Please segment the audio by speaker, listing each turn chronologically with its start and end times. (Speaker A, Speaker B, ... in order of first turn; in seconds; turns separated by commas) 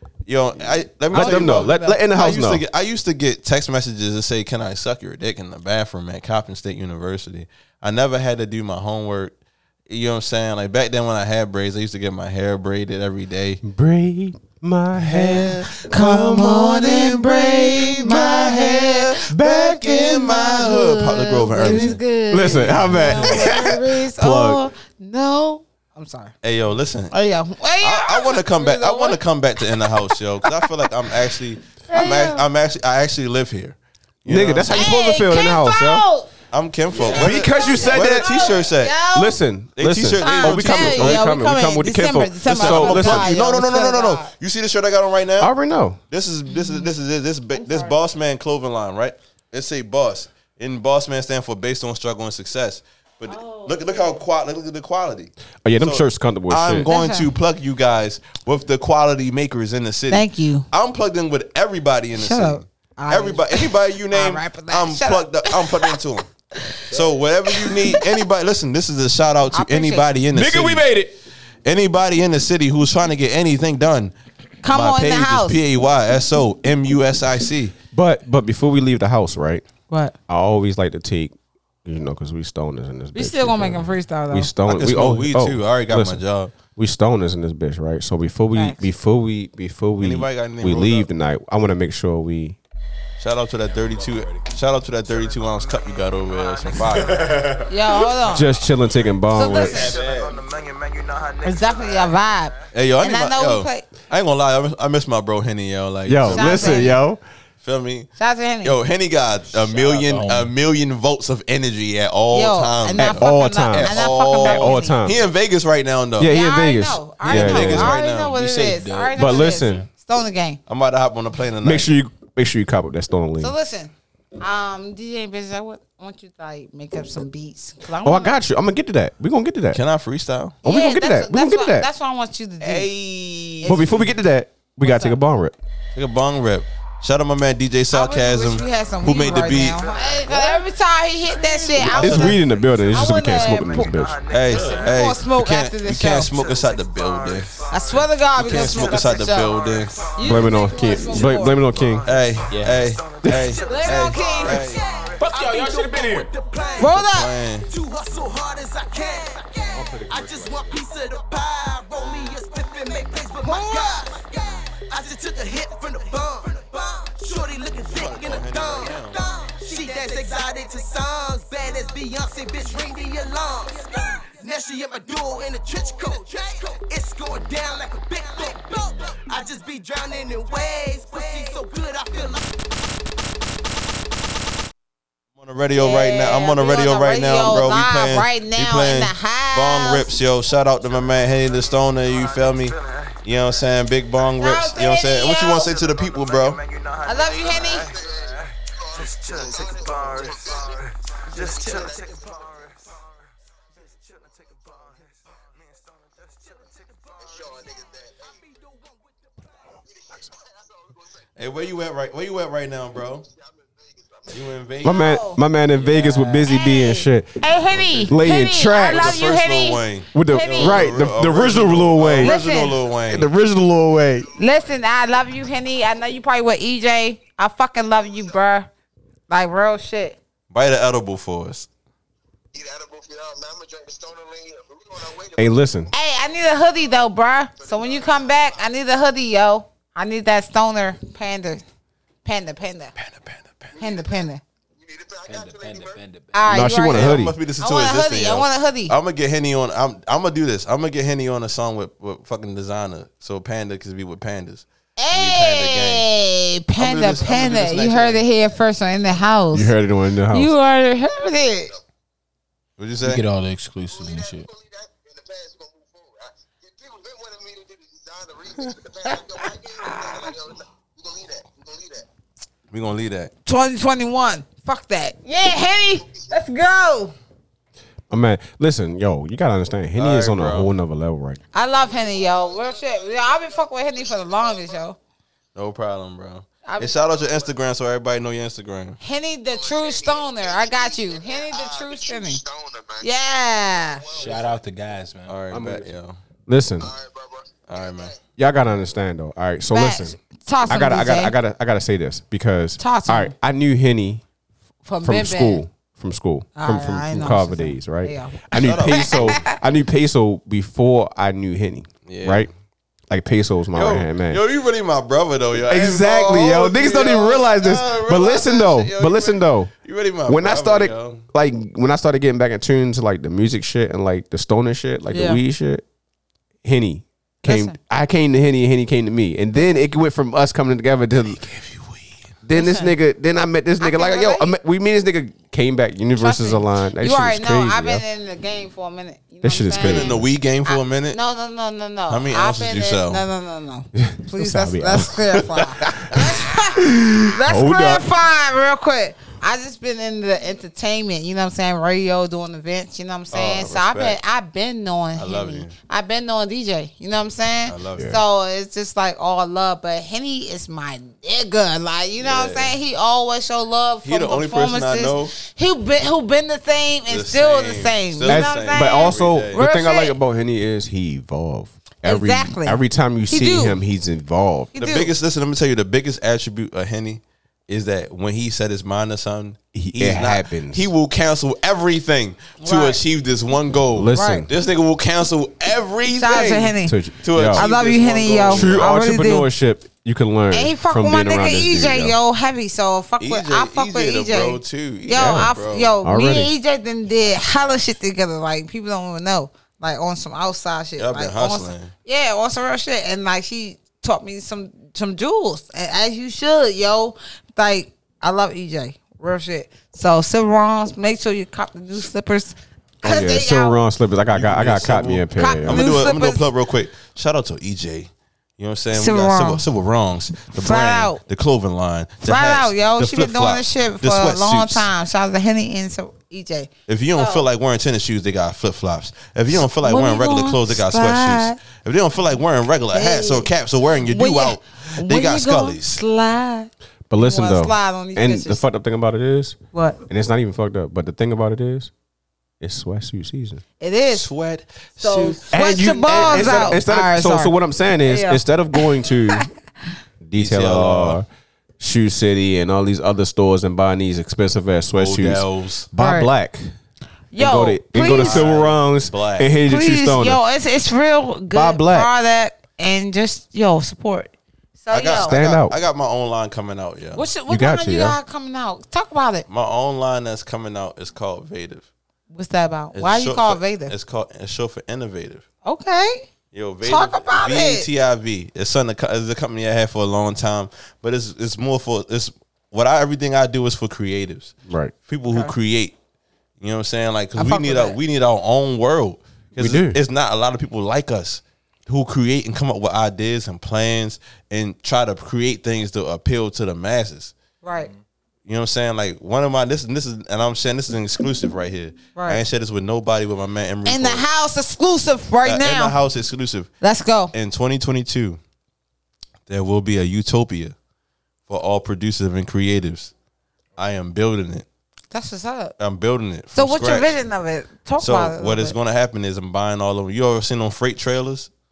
Speaker A: 0.3-9.4, Speaker B: 1.1-2.6, Speaker C: 1.1-2.0, Speaker A: 9.9-13.6, Speaker B: 13.6-17.1, Speaker A: 15.1-15.7, Speaker C: 15.7-26.3, Speaker A: 16.3-22.0, Speaker B: 19.3-20.1, Speaker B: 21.7-24.7, Speaker A: 22.9-23.6, Speaker A: 26.4-27.1, Speaker C: 27.1-29.2, Speaker A: 27.8-34.9, Speaker C: 31.9-32.4, Speaker B: 34.3-36.1, Speaker C: 34.7-36.3, Speaker A: 36.5-39.0, Speaker C: 37.0-39.4, Speaker B: 37.0-38.6, Speaker B: 39.1-43.3, Speaker A: 39.8-41.3, Speaker C: 40.2-44.3, Speaker A: 42.5-45.5, Speaker B: 45.4-46.0, Speaker A: 46.1-66.3, Speaker C: 46.5-46.9, Speaker C: 47.5-48.0, Speaker C: 53.3-54.1, Speaker B: 55.6-56.9, Speaker C: 56.8-57.3, Speaker C: 60.1-60.7, Speaker C: 62.1-66.0, Speaker C: 66.6-66.8, Speaker A: 66.9-70.9, Speaker C: 67.5-68.2, Speaker C: 69.5-70.2, Speaker D: 70.3-71.1, Speaker B: 70.4-70.7, Speaker A: 71.7-74.1, Speaker C: 74.6-75.6, Speaker A: 74.7-77.7, Speaker B: 77.9-79.6, Speaker C: 79.9-80.2, Speaker B: 80.3-86.2, Speaker C: 83.2-84.5, Speaker A: 84.7-86.5, Speaker B: 86.7-92.6, Speaker C: 88.5-88.8, Speaker A: 90.0-91.1, Speaker A: 93.2-97.3, Speaker E: 96.4-96.7, Speaker D: 97.2-97.6, Speaker C: 97.7-98.5, Speaker B: 98.3-100.0, Speaker C: 99.3-100.0, Speaker E: 99.6-102.1, Speaker D: 99.9-100.3, Speaker C: 101.4-103.9, Speaker A: 102.7-107.0, Speaker B: 106.1-107.2, Speaker C: 106.2-107.0, Speaker A: 107.6-116.4, Speaker C: 108.2-108.8, Speaker D: 109.5-110.5, Speaker C: 112.3-115.0, Speaker B: 113.0-115.2, Speaker B: 116.2-117.9, Speaker C: 116.3-120.6, Speaker A: 117.2-118.4, Speaker D: 118.2-119.8, Speaker B: 119.2-119.9, Speaker A: 120.7-121.9, Speaker B: 121.6-123.5, Speaker C: 123.4-128.4, Speaker B: 128.0-129.8, Speaker A: 129.7-130.6, Speaker B: 130.6-131.9, Speaker C: 130.6-132.9, Speaker A: 132.6-134.0, Speaker C: 133.6-134.1, Speaker B: 133.7-135.6, Speaker C: 134.8-135.2, Speaker A: 135.9-139.9, Speaker C: 137.9-144.0, Speaker A: 141.6-142.4, Speaker B: 141.9-144.2, Speaker E: 143.9-144.9, Speaker A: 144.3-147.6, Speaker D: 144.5-144.9, Speaker C: 144.8-146.3, Speaker E: 146.5-148.0, Speaker C: 147.7-149.6, Speaker A: 148.3-150.1, Speaker E: 149.7-150.1, Speaker C: 150.2-151.6, Speaker B: 150.2-152.1, Speaker E: 151.0-155.2, Speaker A: 152.1-154.9, Speaker D: 152.5-152.9, Speaker F: 153.6-157.1, Speaker C: 153.6-155.1, Speaker D: 155.2-156.3, Speaker C: 156.8-157.3, Speaker A: 156.8-157.7, Speaker F: 157.6-182.4, Speaker B: 159.7-160.5, Speaker C: 163.4-164.2, Speaker A: 167.9-169.2, Speaker A: 185.4-196.6, Speaker C: 185.8-190.1, Speaker E: 192.1-193.2, Speaker C: 194.4-195.7, Speaker E: 195.8-203.0, Speaker C: 197.1-198.0, Speaker E: 204.3-205.0, Speaker F: 208.3-209.0, Speaker A: 211.4-213.3, Speaker A: 214.3-215.2, Speaker B: 214.8-219.3, Speaker C: 214.8-215.4, Speaker A: 215.9-216.5, Speaker C: 216.4-221.0, Speaker A: 217.8-218.1, Speaker A: 218.8-223.3, Speaker B: 220.1-222.4, Speaker C: 222.2-222.8, Speaker B: 223.1-224.3, Speaker C: 224.4-228.7, Speaker C: 229.3-230.2, Speaker A: 230.5-231.7, Speaker B: 235.2-235.9, Speaker C: 235.9-241.6, Speaker C: 242.2-242.9, Speaker A: 243.0-243.7, Speaker C: 243.8-244.4, Speaker D: 245.2-246.3, Speaker C: 246.3-248.9, Speaker B: 246.5-247.4, Speaker A: 246.9-256.1, Speaker C: 255.0-259.7, Speaker A: 256.8-258.2, Speaker B: 259.5-260.5, Speaker C: 260.3-261.8, Speaker A: 262.8-263.2, Speaker D: 263.0-264.5, Speaker C: 269.8-270.4, Speaker A: 272.7-273.3, Speaker C: 273.4-277.1, Speaker B: 278.1-281.4, Speaker A: 280.0-280.7, Speaker C: 281.5-285.0, Speaker A: 285.6-289.0, Speaker C: 286.6-286.9, Speaker C: 289.0-292.4, Speaker C: 293.0-294.1, Speaker D: 294.1-295.4, Speaker A: 295.3-296.2, Speaker B: 295.5-295.9, Speaker B: 296.5-296.9, Speaker A: 297.7-298.2, Speaker B: 298.4-304.2, Speaker C: 299.7-301.4, Speaker C: 302.8-303.3, Speaker C: 304.9-305.6, Speaker B: 305.0-312.5, Speaker C: 306.6-309.6, Speaker A: 308.6-309.5, Speaker A: 312.1-312.5, Speaker B: 313.1-314.4, Speaker A: 313.7-321.2, Speaker B: 315.7-319.7, Speaker B: 320.3-325.8, Speaker C: 325.1-325.4, Speaker B: 326.6-331.5, Speaker C: 327.4-327.8, Speaker A: 331.5-332.0, Speaker B: 332.4-338.1, Speaker C: 332.5-332.9, Speaker C: 333.8-334.6, Speaker C: 336.2-370.2, Speaker B: 339.4-340.2, Speaker A: 339.8-341.2, Speaker A: 342.1-343.2, Speaker B: 344.0-348.0, Speaker A: 353.3-354.2, Speaker A: 355.1-355.8, Speaker A: 357.7-358.2, Speaker A: 362.2-362.8, Speaker A: 364.0-365.3, Speaker A: 367.1-369.6, Speaker B: 368.3-374.7, Speaker C: 372.1-373.8, Speaker C: 374.7-375.1, Speaker A: 374.8-388.9, Speaker B: 379.7-380.9, Speaker C: 382.6-383.0, Speaker B: 383.9-384.5, Speaker C: 384.1-384.4, Speaker C: 386.1-387.0, Speaker B: 386.8-387.7, Speaker C: 387.5-389.5, Speaker B: 388.5-392.2, Speaker C: 390.5-413.8, Speaker A: 393.2-395.9, Speaker B: 395.1-396.5, Speaker A: 397.2-397.8, Speaker A: 401.0-401.9, Speaker B: 413.0-415.9, Speaker A: 414.3-424.9, Speaker C: 415.4-416.4, Speaker C: 418.9-419.6, Speaker C: 420.6-421.2, Speaker C: 422.2-427.5, Speaker A: 426.9-436.0, Speaker C: 429.6-431.6, Speaker C: 432.9-433.5, Speaker C: 434.1-438.6, Speaker B: 437.1-439.6, Speaker C: 439.7-440.0, Speaker B: 440.1-441.9, Speaker B: 442.6-443.6, Speaker C: 443.8-444.3, Speaker A: 444.1-446.8, Speaker C: 445.0-447.5, Speaker B: 445.5-449.5, Speaker C: 448.1-449.5, Speaker B: 450.2-451.3, Speaker A: 450.4-451.2, Speaker B: 451.8-456.7, Speaker A: 455.0-455.9, Speaker C: 456.0-456.3, Speaker C: 457.3-458.5, Speaker B: 457.4-460.4, Speaker A: 458.1-459.6, Speaker C: 459.6-465.4, Speaker B: 461.5-462.1, Speaker A: 464.9-467.3, Speaker B: 465.1-465.8, Speaker C: 467.2-469.5, Speaker B: 467.5-468.2, Speaker A: 469.5-471.9, Speaker C: 472.3-473.9, Speaker A: 472.9-475.4, Speaker C: 475.6-476.3, Speaker A: 476.5-484.5, Speaker C: 476.8-477.9, Speaker B: 484.7-484.9, Speaker A: 485.1-485.9, Speaker A: 486.6-497.3, Speaker C: 487.4-488.0, Speaker B: 489.6-490.0, Speaker C: 497.6-497.9, Speaker A: 498.5-504.3, Speaker C: 502.1-502.4, Speaker C: 503.9-506.0, Speaker A: 505.4-506.7, Speaker C: 506.8-507.3, Speaker A: 507.3-508.4, Speaker A: 509.5-510.8, Speaker A: 511.5-513.1, Speaker A: 513.8-514.7, Speaker C: 515.1-515.8, Speaker A: 515.8-517.2, Speaker C: 516.5-518.8, Speaker A: 518.0-521.5